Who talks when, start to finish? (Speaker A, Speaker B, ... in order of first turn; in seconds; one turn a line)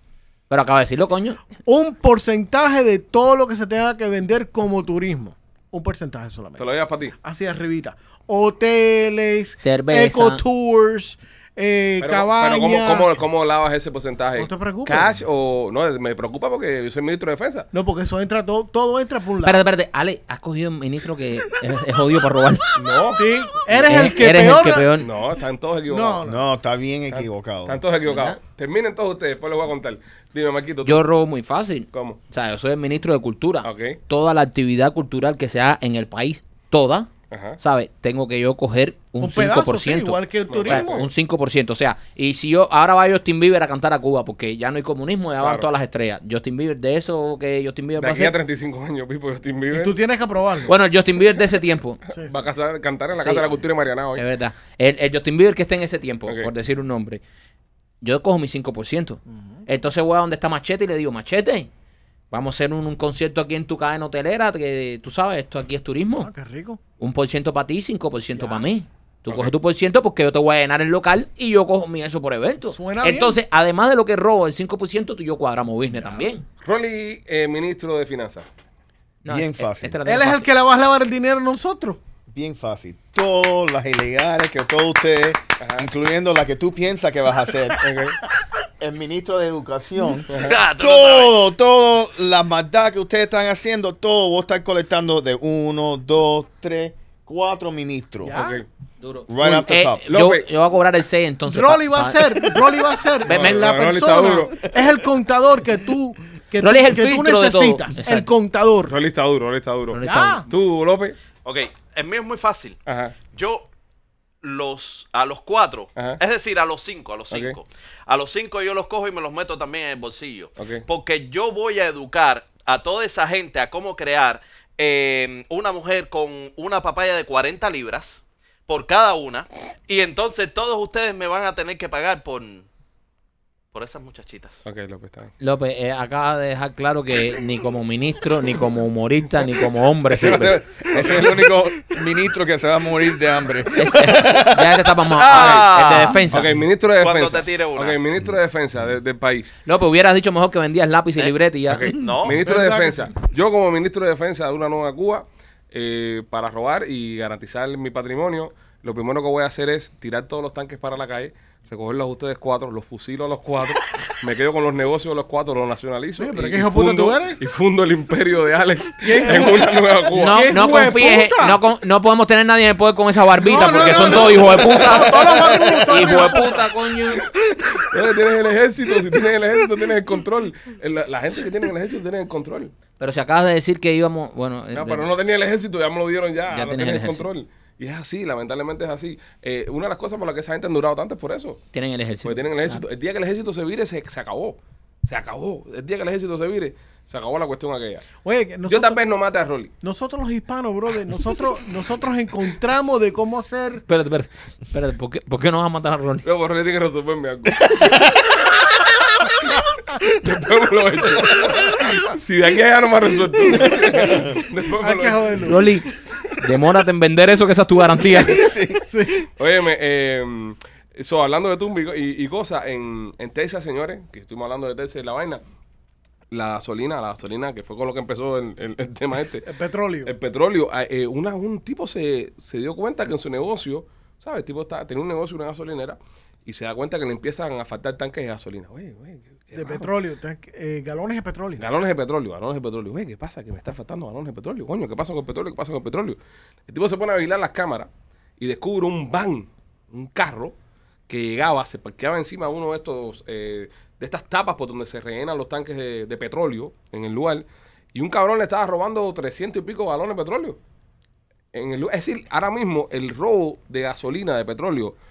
Speaker A: 0.5-1.4
Speaker B: 1.6-13.1
Speaker C: 6.6-7.2
Speaker A: 9.6-10.4
Speaker C: 12.0-17.7
Speaker B: 14.4-15.2
Speaker B: 17.7-19.6
Speaker A: 19.4-22.7
Speaker C: 22.7-24.1
Speaker B: 23.1-24.9
Speaker A: 23.7-25.1
Speaker C: 25.0-26.2
Speaker B: 25.9-26.4
Speaker D: 26.2-27.8
Speaker C: 27.1-31.1
Speaker A: 28.1-28.4
Speaker A: 30.9-48.4
Speaker C: 31.9-32.2
Speaker C: 33.6-34.0
Speaker C: 37.3-37.6
Speaker B: 39.2-41.1
Speaker C: 40.5-40.9
Speaker C: 45.4-45.7
Speaker C: 48.0-50.0
Speaker B: 49.7-50.8
Speaker A: 50.6-52.0
Speaker C: 52.1-54.2
Speaker A: 53.2-53.5
Speaker A: 54.2-57.2
Speaker C: 56.3-56.5
Speaker A: 58.0-61.7
Speaker B: 59.3-59.6
Speaker A: 62.3-66.3
Speaker B: 66.2-66.8
Speaker A: 67.0-76.5
Speaker B: 68.3-68.7
Speaker C: 69.3-69.5
Speaker B: 72.7-73.4
Speaker B: 75.9-76.3
Speaker C: 76.6-78.5
Speaker A: 79.2-80.5
Speaker D: 79.3-80.0
Speaker B: 80.0-82.0
Speaker D: 82.3-87.9
Speaker C: 85.6-85.9
Speaker C: 87.8-88.2
Speaker D: 88.8-98.4
Speaker C: 90.3-90.6
Speaker E: 90.3-91.4
Speaker B: 98.2-98.6
Speaker C: 98.3-98.7
Speaker A: 99.0-102.6
Speaker D: 99.3-100.0
Speaker C: 100.1-100.5
Speaker B: 101.5-109.0
Speaker C: 103.2-104.8
Speaker A: 103.3-103.6
Speaker A: 106.6-108.3
Speaker C: 108.9-111.2
Speaker A: 109.9-110.5
Speaker B: 110.0-110.5
Speaker E: 111.4-113.7
Speaker C: 112.9-113.2
Speaker E: 114.4-132.7
Speaker C: 117.3-117.6
Speaker C: 120.6-120.8
Speaker E: 133.7-134.6
Speaker C: 134.7-135.3
Speaker A: 135.4-140.6
Speaker D: 140.1-144.9
Speaker C: 141.0-141.3
Speaker A: 143.8-146.5
Speaker E: 145.1-146.3
Speaker C: 145.3-149.5
Speaker E: 147.0-148.0
Speaker A: 149.7-151.9
Speaker C: 151.7-170.6
Speaker E: 152.0-152.4
Speaker B: 152.4-153.1
Speaker B: 166.2-167.4
Speaker B: 169.0-171.6
Speaker A: 170.1-177.3
Speaker B: 173.4-176.7
Speaker C: 173.9-176.5
Speaker C: 177.2-182.7
Speaker A: 183.0-185.1
Speaker C: 184.7-191.6
Speaker A: 186.5-187.3
Speaker A: 191.7-192.8
Speaker C: 192.2-198.1
Speaker B: 198.2-199.0
Speaker C: 198.7-199.7
Speaker B: 199.8-203.8
Speaker A: 203.9-206.2
Speaker C: 206.2-208.2
Speaker D: 207.7-208.1
Speaker C: 209.5-215.7
Speaker B: 211.4-212.0
Speaker D: 213.7-214.3
Speaker B: 214.8-215.7
Speaker A: 215.4-218.5
Speaker D: 218.0-218.8
Speaker B: 218.8-219.3
Speaker C: 219.4-225.4
Speaker C: 226.3-229.5
Speaker B: 229.4-230.1
Speaker C: 230.0-239.9
Speaker B: 239.5-241.6
Speaker C: 241.6-250.6
Speaker C: 251.1-260.6
Speaker C: 261.5-264.9